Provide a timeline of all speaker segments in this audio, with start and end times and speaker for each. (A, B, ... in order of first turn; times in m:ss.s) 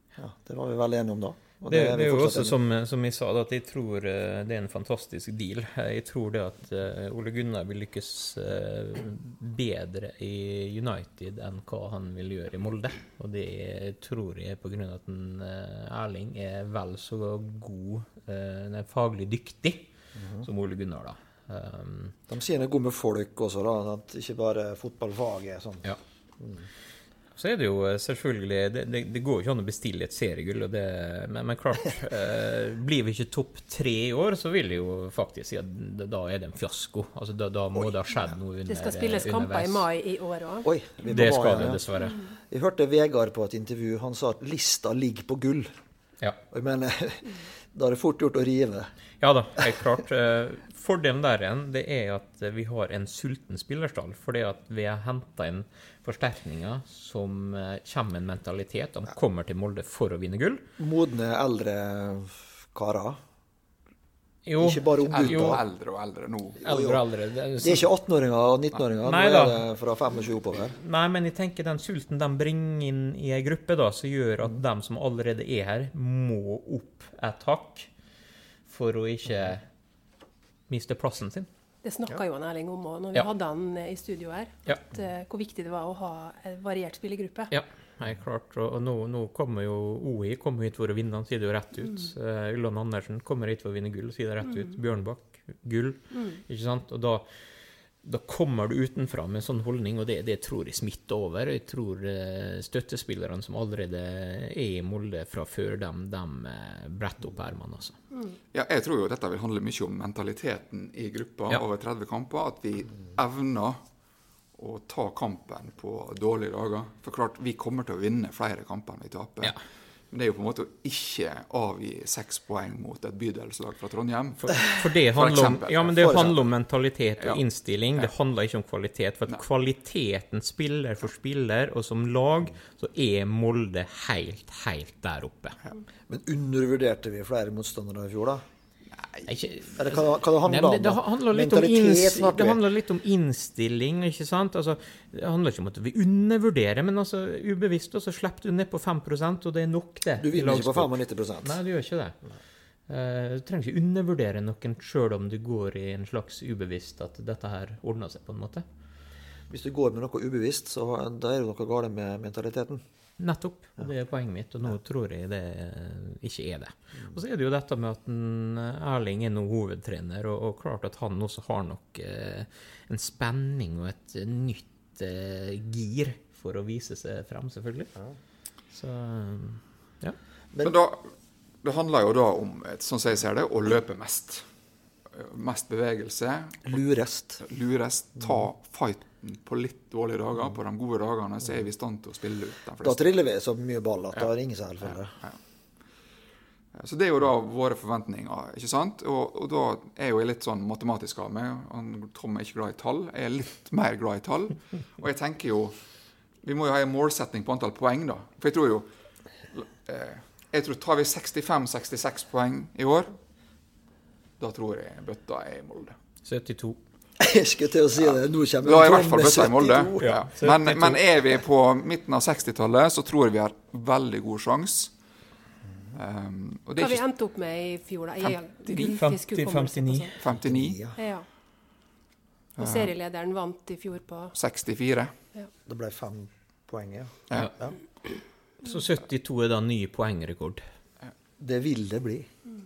0:00.2-0:02.6 A
0:01.7-0:19.9 B
0:20.2-0:20.5 A
0:20.4-0:22.2 B
0:22.3-0:25.8 A
0:26.4-0:26.7 A
0:27.4-0:39.8 B
0:38.7-0:40.7 C
0:40.6-0:41.8 A
0:41.1-0:42.2 B
0:42.5-0:45.7 A
0:46.5-0:48.9 A
0:49.2-1:00.6 B
1:00.8-1:03.2 A
1:04.5-1:05.6 B
1:04.6-1:05.6 A
1:05.1-1:06.6 D
1:06.6-1:07.0 A
1:06.6-1:07.9 B
1:07.6-1:10.8 A
1:09.0-1:09.6 B
1:10.8-1:17.9 B
1:18.7-1:19.7 B
1:20.7-1:21.5 B
1:21.8-1:27.5 C
1:27.5-1:37.3 B
1:38.0-1:48.0 B
1:48.5-1:53.8 D
1:54.6-1:59.6 D
2:00.1-2:06.1 D
2:04.5-2:15.6 B
2:05.9-2:06.4 A
2:16.1-2:18.4 A
2:19.3-2:32.2 B
2:19.8-2:22.6 A
2:30.2-2:31.6 A
2:32.9-2:38.6 B
2:39.5-2:42.8 A
2:43.2-2:57.9 B
2:58.7-3:00.2 B
3:00.6-3:04.4 D
3:05.1-3:06.7 D
3:06.6-3:07.4 A
3:07.4-3:13.1 D
3:12.8-3:15.1 A
3:16.7-3:25.8 D
3:26.4-3:28.9 D
3:29.5-3:33.1 D
3:34.4-3:36.0 D
3:36.2-3:36.8 B
3:37.2-3:40.1 A
3:38.0-3:44.9 D
3:40.0-3:41.0 B
3:45.7-3:46.0 A
3:46.0-3:47.0 D
3:46.8-3:50.2 C
3:48.2-3:48.9 D
3:48.7-3:50.1 B
3:50.2-3:50.8 D
3:50.4-3:51.0 A
3:51.0-3:51.2 C
3:52.6-3:52.9 D
3:52.6-3:54.4 C
3:54.4-3:55.1 D
3:55.7-3:57.8 A
3:58.6-4:00.6 B
4:01.4-4:02.3 A